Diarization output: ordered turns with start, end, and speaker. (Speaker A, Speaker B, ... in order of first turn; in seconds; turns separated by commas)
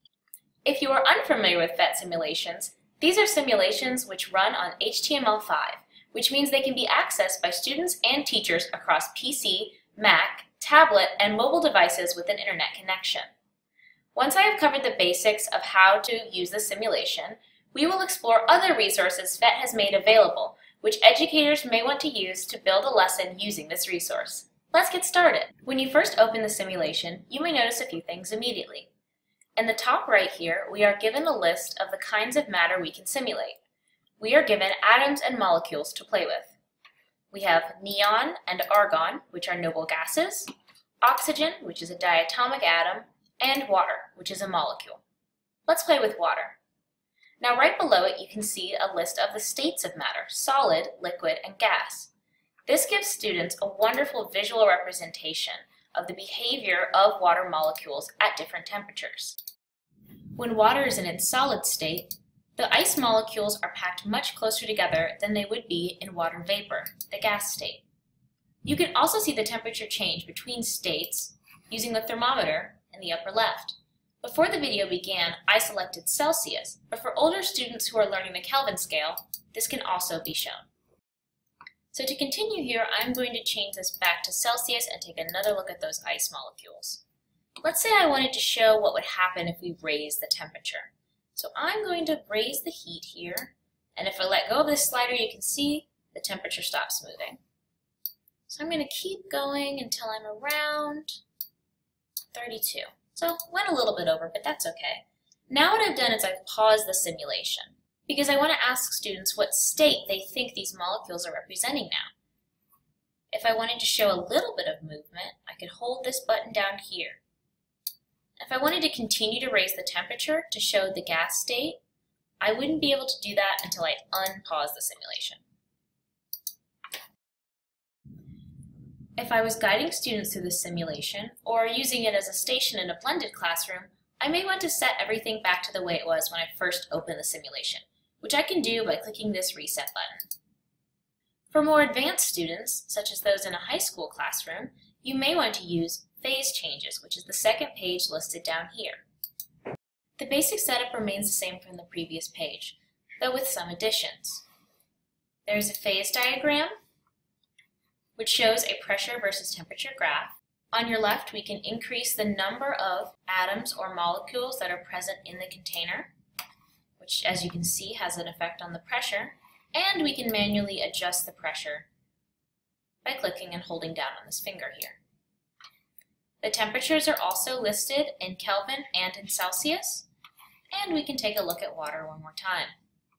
Speaker A: 0.6-13.3, Speaker A: 14.1-28.9, Speaker A: 29.6-33.6, Speaker A: 34.2-36.5, Speaker A: 37.3-40.5, Speaker A: 41.0-45.0, Speaker A: 45.7-46.6, Speaker A: 47.4-52.1, Speaker A: 52.7-59.4, Speaker A: 60.4-67.8, Speaker A: 68.6-80.7, Speaker A: 81.9-87.0, Speaker A: 87.6-97.4, Speaker A: 98.5-101.2, Speaker A: 102.3-112.1, Speaker A: 113.3-117.2, Speaker A: 118.4-121.8, Speaker A: 122.4-125.4, Speaker A: 129.2-140.3, Speaker A: 141.5-149.0, Speaker A: 150.2-154.4, Speaker A: 155.4-156.7, Speaker A: 158.2-166.1, Speaker A: 167.0-171.9, Speaker A: 173.0-175.0, Speaker A: 176.4-180.1, Speaker A: 180.7-182.7